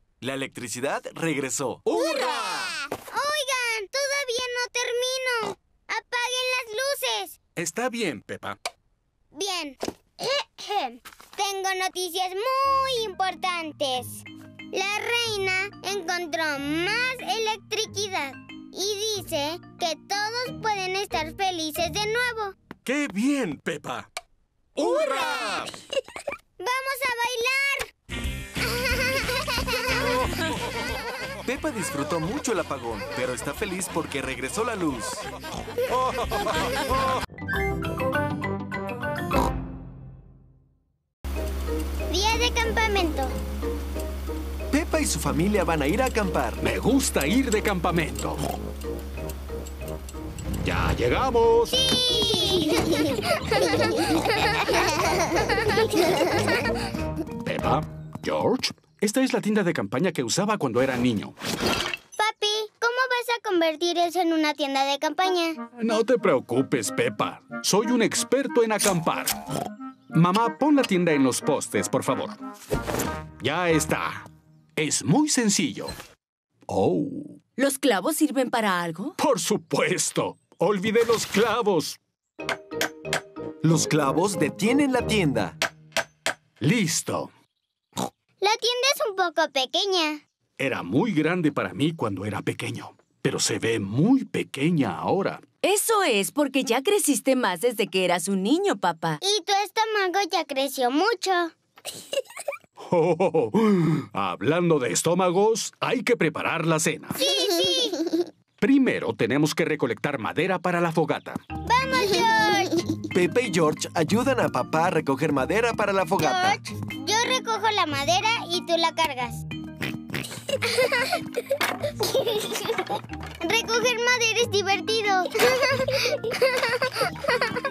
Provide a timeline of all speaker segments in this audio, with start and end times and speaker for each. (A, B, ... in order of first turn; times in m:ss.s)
0:00.2-0:01.8 A
0:01.8-0:02.8 B
0:02.0-0:07.4 C
0:07.6-0:08.6 B
0:09.3-0:22.6 C
0:22.8-0:24.1 B
0:24.8-0:25.7 B
0:24.8-0:25.6 C
0:26.6-0:27.9 C
0:28.6-0:30.2 C
0:31.4-0:35.3 A
0:42.1-0:43.4 C
0:44.7-0:46.6 A
0:46.6-0:48.4 B
0:50.6-0:51.8 B
0:51.7-0:56.6 C
0:57.4-1:01.4 B
1:02.2-1:05.6 C
1:05.8-1:09.4 B
1:10.1-1:12.4 B
1:13.4-1:15.9 B
1:16.7-1:17.4 B
1:17.6-1:19.2 D
1:19.2-1:22.0 B
1:23.6-1:25.6 A
1:26.6-1:27.3 B
1:28.4-1:30.2 C
1:30.6-1:35.4 B
1:35.6-1:39.2 D
1:39.2-1:41.5 C
1:42.8-1:47.2 B
1:47.2-1:48.2 C
1:48.6-1:51.4 B
1:51.6-1:52.9 C
1:53.1-1:56.6 A
1:56.2-1:59.4 C
2:00.6-2:01.2 C
2:02.2-2:02.6 C
2:03.4-2:06.9 C